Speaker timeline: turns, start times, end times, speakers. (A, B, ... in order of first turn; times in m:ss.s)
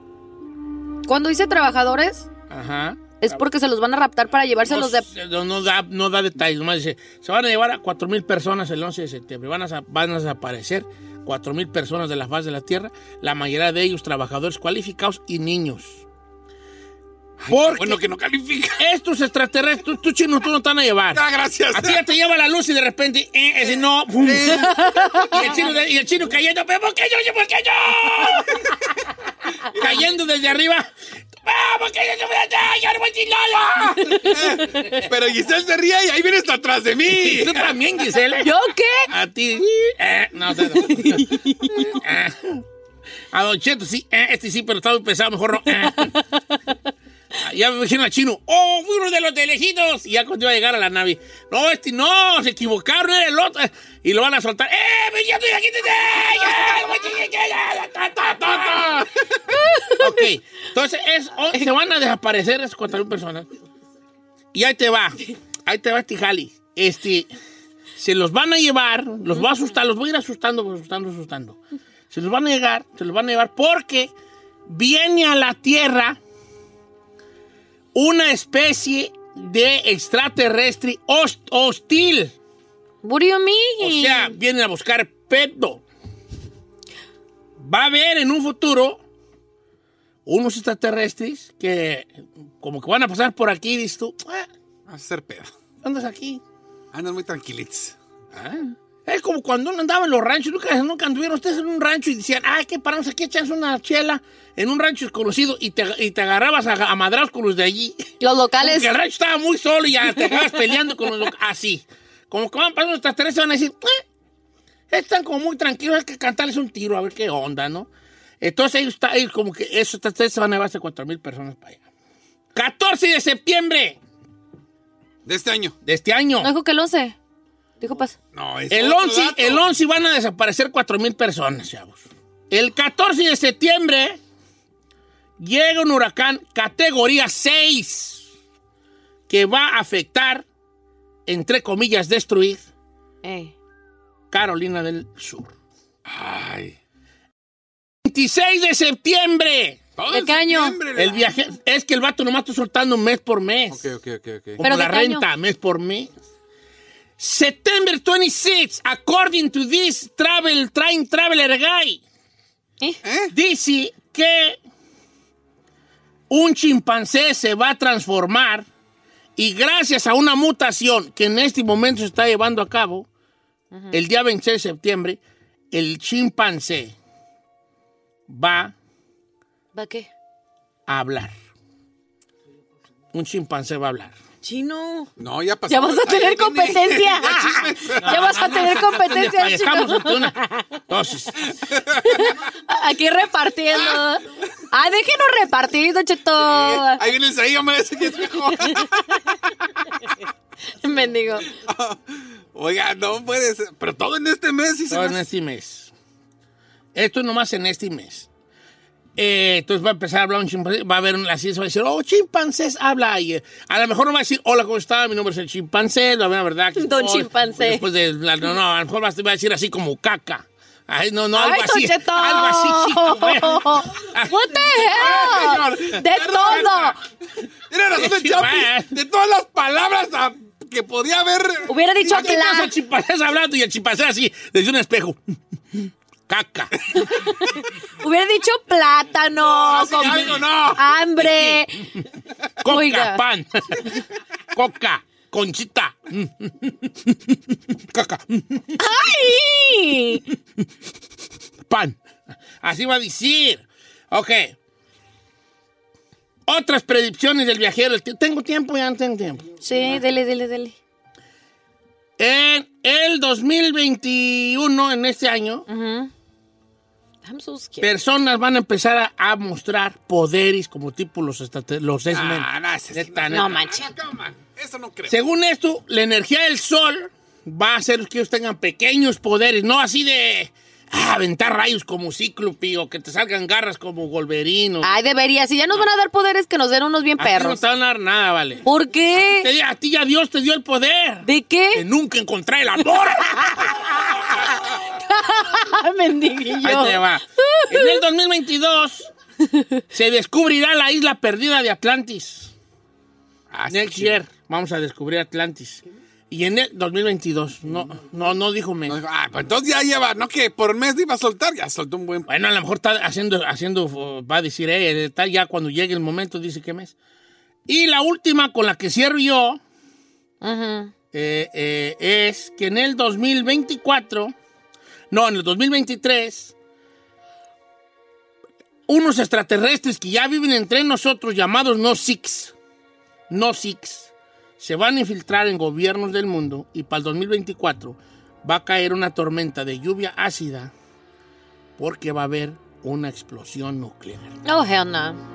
0:01.0-0:02.3 A
0:02.5-0:03.5 B
0:03.2-0:05.1 A
0:04.7-0:16.0 B
0:17.4-0:18.8 C
0:17.5-0:18.0 B
0:18.8-0:28.7 B
0:21.1-0:22.1 C
0:23.6-0:25.0 C
0:29.7-0:30.0 C
0:29.7-0:30.9 B
0:31.4-0:35.1 B
0:34.0-0:37.8 C
0:37.1-0:38.5 B
0:38.3-0:39.1 A
0:39.1-0:42.6 B
0:40.8-0:42.0 A
0:43.3-0:46.2 B
0:45.9-0:46.2 A
0:47.4-0:59.1 B
0:58.4-0:59.1 C
0:59.7-1:00.1 A
1:00.0-1:03.5 B
1:04.5-1:07.3 B
1:08.0-1:11.6 B
1:12.1-1:14.1 B
1:14.7-1:16.2 B
1:17.9-1:22.3 B
1:23.0-1:24.4 A
1:23.8-1:25.8 B
1:27.6-1:29.0 B
1:30.3-1:34.5 B
1:34.9-1:35.5 C
1:35.8-1:36.4 B
1:36.9-1:38.0 C
1:38.3-1:54.0 B
1:48.2-1:48.9 A
1:54.9-1:57.9 B
1:58.4-2:01.8 B
2:02.6-2:04.0 B
2:05.3-2:05.8 C
2:05.8-2:06.5 B
2:06.4-2:07.2 A
2:07.8-2:08.2 A
2:08.3-2:09.6 C
2:08.7-2:14.2 B
2:15.4-2:18.3 B
2:19.3-2:20.4 B
2:21.3-2:22.6 B
2:23.2-2:23.5 A
2:24.3-2:25.5 B
2:26.0-2:26.8 C
2:28.0-2:29.8 B
2:30.0-2:31.3 C
2:30.1-2:30.8 A
2:30.9-2:33.8 B
2:33.7-2:34.6 C
2:34.6-2:36.1 B
2:34.6-2:35.3 A
2:37.2-2:42.0 B
2:43.0-2:43.3 C
2:43.3-2:44.6 B
2:46.3-2:48.7 B
2:49.4-2:53.1 B
2:53.9-2:55.2 B
2:55.7-2:57.0 B
2:58.3-2:58.7 B
2:59.8-3:00.1 A
3:00.9-3:01.3 B
3:03.1-3:04.2 B
3:04.4-3:05.1 A
3:05.2-3:08.6 C
3:05.7-3:10.8 A
3:08.0-3:10.4 B
3:10.9-3:11.5 B
3:11.6-3:12.2 C
3:12.1-3:17.0 A
3:13.7-3:14.1 C
3:16.4-3:19.4 C
3:20.8-3:21.5 A
3:21.5-3:25.2 C
3:24.9-3:25.9 B
3:27.0-3:28.3 B
3:29.2-3:45.4 B
3:36.8-3:37.9 A
3:41.3-3:47.0 A
3:44.9-3:47.0 C
3:47.7-3:52.3 C
3:47.9-3:48.9 B
3:51.7-3:52.7 A
3:52.0-3:55.2 B
3:56.3-3:57.1 B
3:57.2-4:01.9 A
3:59.4-4:00.9 C
4:00.0-4:00.4 B
4:01.2-4:01.6 B
4:02.6-4:07.4 B
4:02.6-4:03.2 A
4:07.9-4:08.8 B
4:08.8-4:10.2 A
4:11.7-4:12.0 B
4:12.6-4:14.6 B
4:16.5-4:19.5 B
4:19.6-4:20.8 A
4:22.2-4:25.6 B
4:25.7-4:26.1 A
4:27.2-4:27.9 A
4:27.8-4:33.5 B
4:32.1-4:35.2 C
4:33.3-4:33.9 A
4:35.1-4:44.9 B
4:44.8-4:47.6 A
4:47.2-4:54.0 B
4:48.6-4:49.5 A
4:51.2-4:51.8 A
4:53.2-4:58.0 A
4:56.6-4:59.1 B
4:59.9-5:02.5 B
5:03.5-5:04.2 C
5:03.7-5:09.0 B
5:08.9-5:12.3 C
5:12.3-5:16.9 B
5:17.7-5:19.6 B
5:20.4-5:20.9 A
5:21.1-5:24.4 B
5:25.1-5:26.5 B
5:28.9-5:32.5 B
5:33.3-5:40.7 B
5:41.8-5:44.4 B
5:44.4-5:45.2 A